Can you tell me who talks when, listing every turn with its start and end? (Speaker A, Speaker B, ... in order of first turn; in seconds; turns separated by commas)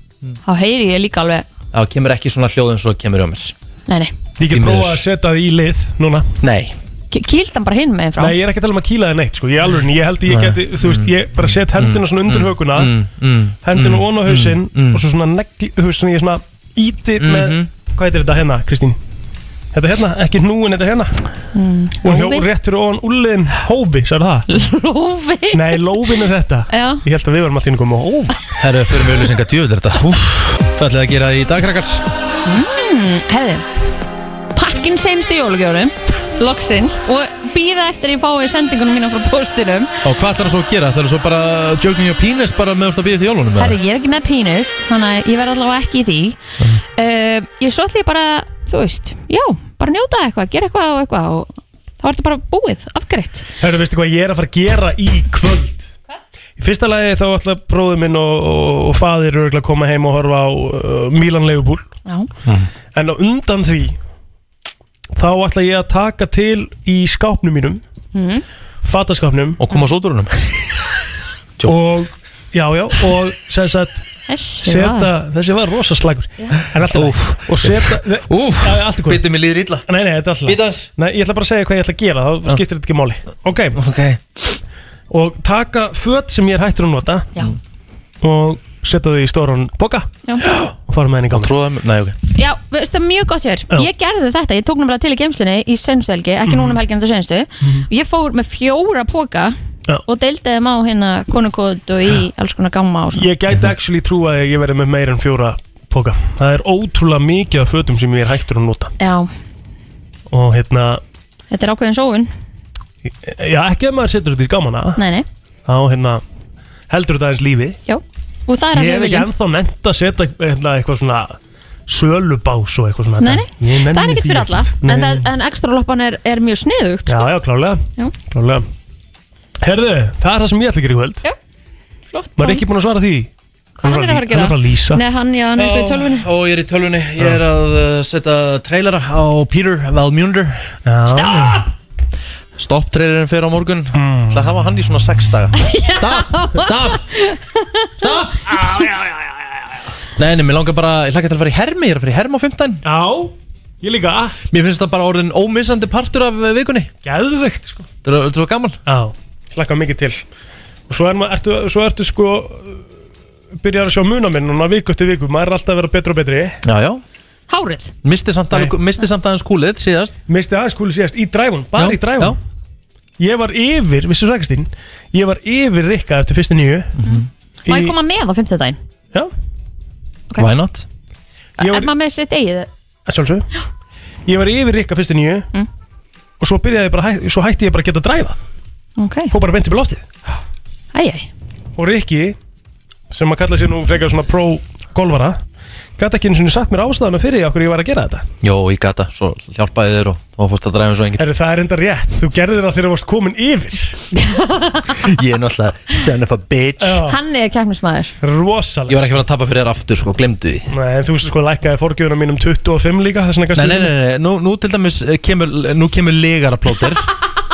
Speaker A: 0.5-1.5, Speaker B: 1.7-3.5, Speaker A: 3.9-4.1, Speaker C: 4.4-6.3, Speaker B: 4.5-5.0, Speaker B: 6.4-6.8, Speaker A: 7.1-8.3, Speaker C: 8.2-13.0, Speaker B: 10.3-15.0, Speaker C: 13.6-19.0, Speaker B: 17.2-17.7, Speaker C: 19.7-21.2, Speaker A: 21.5-22.5, Speaker C: 22.0-24.5, Speaker A: 24.5-25.9, Speaker C: 25.5-28.4, Speaker A: 26.7-27.0, Speaker B: 28.6-32.0, Speaker A: 32.5-33.6, Speaker A: 34.5-39.9, Speaker B: 40.0-43.8, Speaker A: 43.6-46.4, Speaker A: 47.0-53.5, Speaker C: 53.6-55.9, Speaker C: 56.6-61.9, Speaker C: 62.9-64.0, Speaker C: 65.2-67.8, Speaker A: 68.1-68.4, Speaker C: 68.8-69.6, Speaker B: 69.6-70.8, Speaker C: 71.7-74.1, Speaker A: 74.3-75.1, Speaker C: 74.6-79.2, Speaker B: 76.9-79.8, Speaker C: 79.9-83.8, Speaker B: 80.5-80.9, Speaker B: 83.7-84.4, Speaker C: 85.1-87.3, Speaker C: 88.2-90.1, Speaker B: 90.4-90.7, Speaker C: 90.9-91.5, Speaker B: 91.3-92.2, Speaker A: 92.3-103.3, Speaker C: 96.5-96.8, Speaker C: 103.2-108.9, Speaker A: 109.0-109.3, Speaker C: 110.3-111.0, Speaker A: 111.5-112.3, Speaker C: 113.2-115.0, Speaker A: 115.0-115.3, Speaker C: 115.7-116.2, Speaker C: 116.9-117.8, Speaker A: 117.9-119.3, Speaker C: 118.7-125.3, Speaker A: 123.2-127.3, Speaker C: 127.1-128.7, Speaker C: 129.6-131.2, Speaker A: 132.1-132.6, Speaker C: 132.4-133.3, Speaker A: 133.8-136.2, Speaker C: 133.8-135.0, Speaker B: 135.6-140.7, Speaker C: 140.9-141.7, Speaker A: 141.3-141.6, Speaker B: 142.6-147.1, Speaker C: 144.0-144.5, Speaker A: 145.6-147.9, Speaker B: 148.0-148.6, Speaker C: 148.5-149.6, Speaker B: 150.2-152.8, Speaker C: 152.8-154.4, Speaker B: 154.5-156.9, Speaker C: 157.0-157.9, Speaker B: 158.0-158.8, Speaker C: 158.9-160.2, Speaker C: 160.9-162.8, Speaker C: 163.6-166.6, Speaker B: 166.7-167.0, Speaker A: 167.5-167.9, Speaker B: 168.0-170.2, Speaker C: 170.3-172.4, Speaker B: 171.8-172.4, Speaker C: 173.2-176.9, Speaker B: 177.0-177.3, Speaker A: 177.0-178.8, Speaker C: 177.7-177.9, Speaker B: 180.4-180.9, Speaker A: 181.6-182.7, Speaker C: 181.6-181.9, Speaker C: 183.1-183.5, Speaker C: 184.3-185.5, Speaker C: 186.4-188.4, Speaker A: 189.0-189.3, Speaker C: 189.3-190.1, Speaker A: 190.9-191.3, Speaker C: 191.8-192.4, Speaker C: 193.1-195.4, Speaker C: 196.0-198.3, Speaker B: 198.4-201.2, Speaker C: 201.2-204.0, Speaker A: 204.1-205.1, Speaker B: 205.0-207.0, Speaker C: 206.8-207.2, Speaker A: 207.0-208.1, Speaker C: 208.2-209.1, Speaker B: 208.9-210.7, Speaker C: 210.7-213.9, Speaker B: 213.5-217.1